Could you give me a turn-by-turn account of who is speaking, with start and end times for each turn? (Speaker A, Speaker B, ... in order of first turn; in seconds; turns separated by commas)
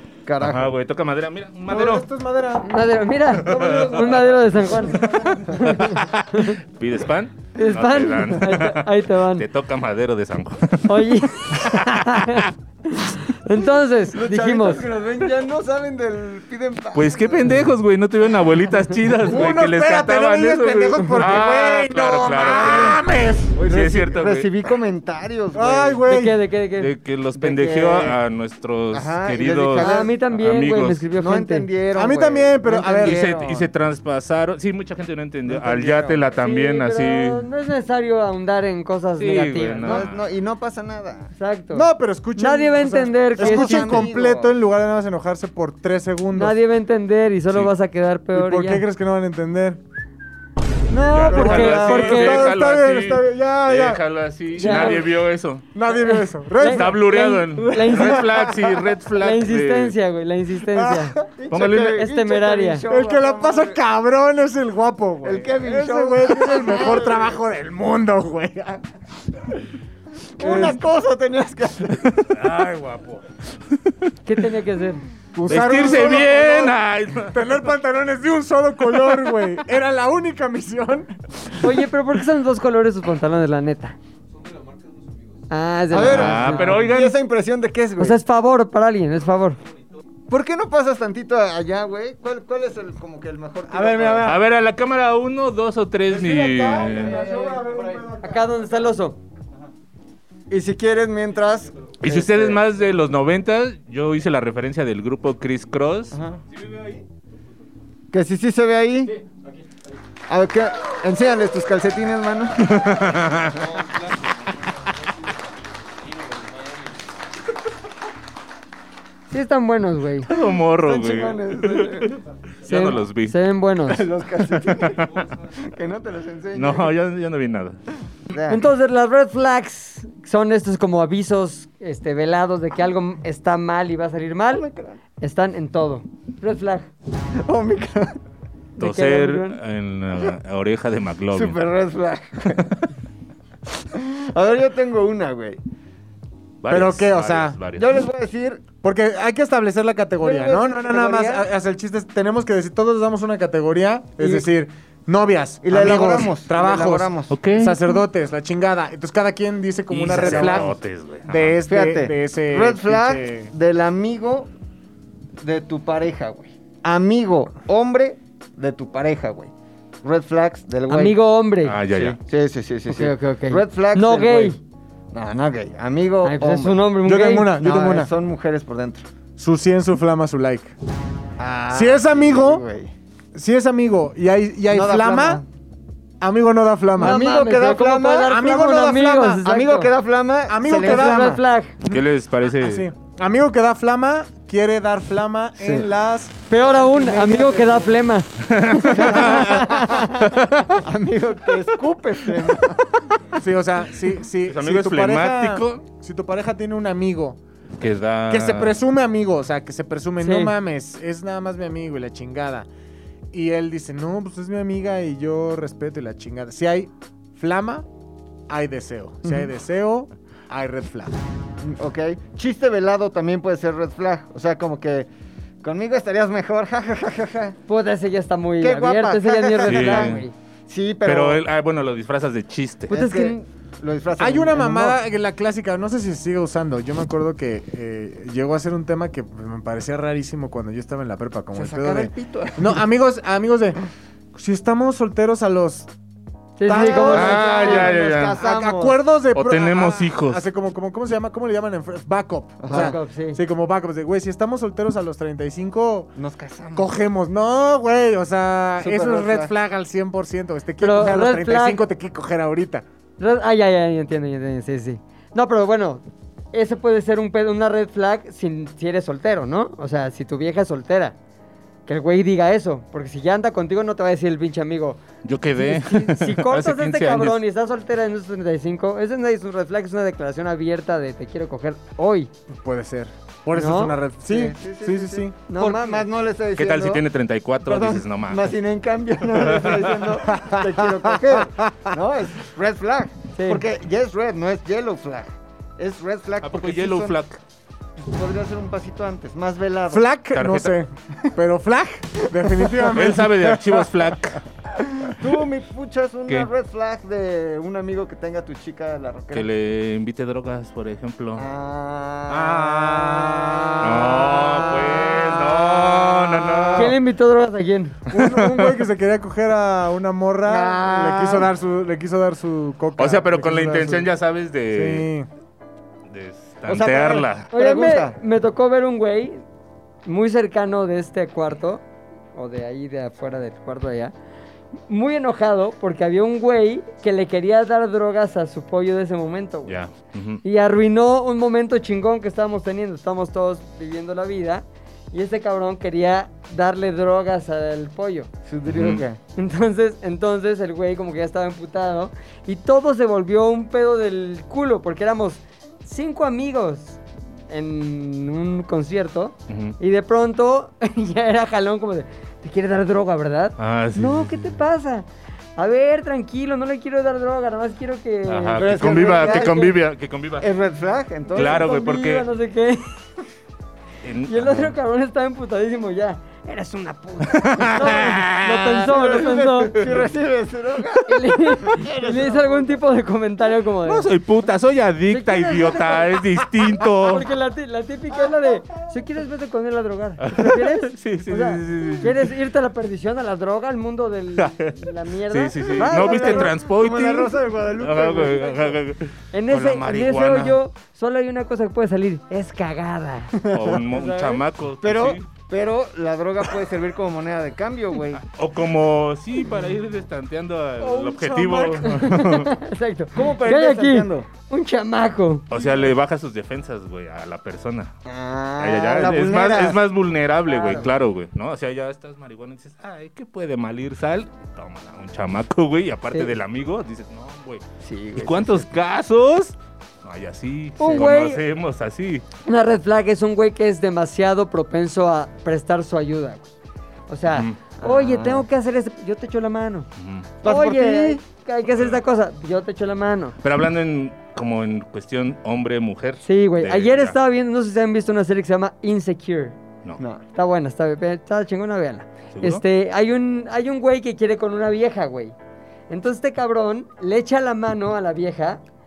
Speaker A: 0.2-0.7, Speaker B: 0.4-2.1, Speaker C: 1.7-2.7, Speaker D: 2.6-5.0, Speaker B: 3.4-4.3, Speaker B: 5.0-12.5, Speaker D: 5.5-6.6, Speaker D: 7.6-9.4, Speaker D: 10.9-14.8, Speaker A: 14.1-17.7, Speaker B: 16.9-23.0, Speaker C: 19.2-23.6, Speaker A: 21.2-22.9, Speaker A: 23.6-26.0, Speaker B: 23.6-24.5, Speaker C: 25.5-26.4, Speaker D: 26.1-26.9, Speaker B: 26.8-31.1, Speaker A: 27.4-28.1, Speaker A: 28.9-30.1, Speaker D: 29.8-31.7, Speaker A: 31.1-33.7, Speaker C: 31.9-33.2, Speaker B: 33.0-37.4, Speaker A: 35.5-36.4, Speaker D: 36.4-40.1, Speaker B: 39.2-40.2, Speaker A: 39.9-41.3, Speaker D: 41.4-44.1, Speaker C: 41.7-46.6, Speaker A: 43.4-44.5, Speaker D: 46.4-48.9, Speaker C: 48.3-49.8, Speaker D: 50.9-52.5, Speaker B: 51.1-55.7, Speaker C: 51.3-54.0, Speaker A: 51.3-51.8, Speaker C: 54.5-55.1, Speaker D: 54.6-55.0, Speaker C: 55.7-57.0, Speaker D: 55.9-58.3, Speaker B: 56.6-60.0, Speaker C: 57.7-58.8, Speaker D: 59.2-61.1, Speaker C: 60.8-61.1, Speaker A: 61.3-63.8, Speaker B: 61.5-62.1, Speaker D: 62.0-62.8, Speaker C: 62.9-68.8, Speaker A: 65.2-67.4, Speaker A: 70.4-72.3, Speaker C: 70.4-70.8, Speaker D: 70.4-70.8, Speaker C: 72.4-73.2, Speaker D: 74.2-75.0, Speaker C: 75.3-81.3, Speaker B: 75.5-77.4, Speaker B: 79.1-79.5, Speaker D: 81.6-84.0, Speaker D: 85.5-86.7, Speaker A: 85.9-88.2, Speaker B: 86.0-87.2, Speaker D: 88.0-89.6, Speaker A: 90.3-94.3, Speaker C: 93.7-94.4, Speaker B: 94.2-97.3, Speaker C: 96.4-98.1, Speaker A: 97.1-98.0, Speaker D: 98.2-99.2, Speaker A: 100.5-102.6, Speaker B: 102.0-106.2, Speaker A: 106.1-106.4, Speaker A: 108.1-109.2, Speaker A: 110.3-112.7, Speaker B: 112.6-113.8, Speaker D: 119.3-120.3, Speaker B: 120.2-123.4, Speaker A: 120.8-122.1, Speaker D: 122.7-124.0, Speaker A: 123.9-126.9, Speaker B: 124.5-125.1, Speaker B: 126.5-127.8, Speaker A: 128.3-128.7, Speaker D: 128.5-134.6, Speaker A: 134.5-135.0, Speaker D: 135.2-136.9, Speaker A: 137.4-138.2, Speaker D: 138.8-139.6, Speaker B: 138.8-141.6, Speaker A: 141.3-142.8, Speaker A: 143.9-145.6, Speaker B: 146.6-148.0, Speaker C: 146.7-147.6, Speaker A: 147.8-148.6, Speaker C: 148.8-163.5, Speaker A: 150.2-151.4, Speaker A: 155.6-157.4, Speaker B: 157.3-157.8, Speaker B: 159.9-161.6, Speaker A: 160.1-160.7, Speaker A: 161.7-164.5, Speaker A: 165.4-169.5, Speaker A: 170.0-171.2, Speaker D: 170.9-171.8, Speaker B: 171.6-172.2, Speaker A: 171.9-174.6, Speaker D: 172.9-174.6, Speaker A: 175.1-176.9, Speaker D: 176.2-177.5, Speaker C: 177.0-178.1, Speaker A: 177.5-179.1, Speaker C: 179.4-180.7, Speaker A: 181.4-182.9, Speaker C: 181.7-182.6, Speaker C: 183.3-185.4, Speaker A: 184.7-185.5, Speaker C: 186.2-187.2, Speaker A: 187.0-188.4, Speaker D: 187.0-189.9, Speaker C: 188.2-189.4, Speaker A: 189.4-191.4, Speaker C: 190.5-192.1, Speaker D: 190.8-191.7, Speaker B: 191.9-192.9, Speaker C: 192.6-197.9, Speaker A: 195.6-195.9, Speaker D: 196.5-200.2, Speaker A: 197.4-197.7, Speaker B: 198.4-199.6, Speaker A: 199.0-199.8, Speaker B: 200.2-200.8, Speaker A: 200.8-202.8, Speaker C: 203.3-207.4, Speaker B: 204.5-205.8, Speaker B: 207.8-208.8, Speaker C: 208.3-212.7, Speaker D: 210.2-210.6, Speaker C: 213.3-217.9, Speaker C: 218.5-221.1, Speaker A: 221.6-225.1, Speaker A: 225.6-227.6, Speaker D: 227.7-230.3, Speaker A: 228.6-231.4, Speaker B: 229.7-230.2, Speaker B: 231.1-233.0, Speaker D: 232.9-233.4, Speaker A: 232.9-235.0, Speaker C: 234.2-243.8, Speaker A: 241.5-242.8, Speaker C: 244.3-245.9, Speaker D: 246.6-247.9, Speaker C: 246.7-247.6, Speaker A: 246.7-249.0, Speaker B: 247.1-248.4, Speaker C: 248.4-256.1, Speaker B: 249.3-250.4, Speaker A: 252.6-253.0, Speaker D: 252.7-253.4, Speaker A: 256.1-256.9, Speaker C: 256.7-262.8, Speaker A: 258.8-259.5, Speaker D: 260.8-261.8, Speaker D: 263.2-271.1, Speaker D: 271.9-275.0, Speaker B: 275.2-277.4, Speaker D: 275.6-282.3, Speaker C: 282.5-285.4, Speaker D: 283.5-284.0, Speaker A: 284.2-287.0, Speaker D: 285.5-286.1, Speaker B: 286.6-288.6, Speaker A: 287.6-297.1, Speaker B: 289.3-290.0, Speaker C: 290.3-291.9, Speaker D: 293.3-293.6, Speaker B: 296.4-297.4, Speaker A: 298.0-300.1, Speaker C: 299.9-304.1, Speaker B: 300.3-300.8, Speaker B: 302.9-304.4, Speaker C: 304.8-305.1, Speaker A: 305.1-309.5, Speaker B: 309.3-311.5, Speaker A: 311.4-314.0, Speaker C: 312.3-316.8, Speaker B: 313.8-317.0, Speaker A: 314.6-315.4, Speaker D: 316.8-318.0, Speaker C: 318.1-324.1, Speaker B: 318.1-318.7, Speaker A: 320.5-321.5, Speaker B: 323.0-325.1, Speaker C: 324.7-325.3, Speaker B: 326.1-327.5, Speaker A: 326.7-328.2, Speaker D: 327.5-329.4, Speaker D: 330.1-331.8, Speaker D: 332.4-334.1, Speaker D: 334.9-339.8, Speaker B: 339.6-340.4, Speaker D: 340.4-348.3, Speaker A: 348.5-349.2, Speaker B: 348.6-349.0, Speaker D: 349.4-365.1, Speaker B: 359.5-359.8, Speaker B: 363.6-364.6, Speaker D: 365.6-369.7, Speaker B: 368.3-370.5, Speaker A: 368.6-369.7, Speaker A: 370.4-371.8, Speaker D: 371.3-372.8, Speaker B: 371.4-372.2, Speaker B: 374.0-374.8, Speaker D: 374.3-379.8, Speaker B: 377.3-380.1, Speaker A: 378.9-382.7, Speaker D: 381.1-384.1, Speaker B: 383.9-387.3, Speaker D: 385.1-386.2, Speaker D: 387.0-396.5, Speaker B: 390.2-392.3, Speaker B: 394.4-394.8, Speaker B: 395.3-400.6, Speaker A: 395.8-398.8, Speaker D: 399.3-403.4, Speaker A: 403.4-403.8, Speaker B: 403.5-405.2, Speaker D: 403.9-404.4, Speaker A: 404.8-408.2, Speaker B: 408.1-412.5, Speaker D: 411.4-415.5, Speaker A: 413.1-414.3, Speaker B: 415.5-417.9, Speaker A: 418.1-419.8, Speaker B: 418.6-427.6, Speaker A: 420.5-420.9, Speaker A: 427.8-428.7, Speaker B: 428.1-432.2, Speaker D: 430.8-431.4, Speaker D: 432.4-436.6, Speaker D: 437.1-439.9, Speaker B: 437.3-437.6, Speaker A: 437.8-438.4, Speaker B: 440.0-440.3, Speaker A: 440.4-441.2, Speaker D: 440.4-443.4, Speaker B: 443.4-447.1, Speaker D: 446.2-449.6, Speaker A: 450.0-450.2, Speaker D: 450.3-455.4, Speaker B: 452.3-452.6, Speaker D: 455.9-458.6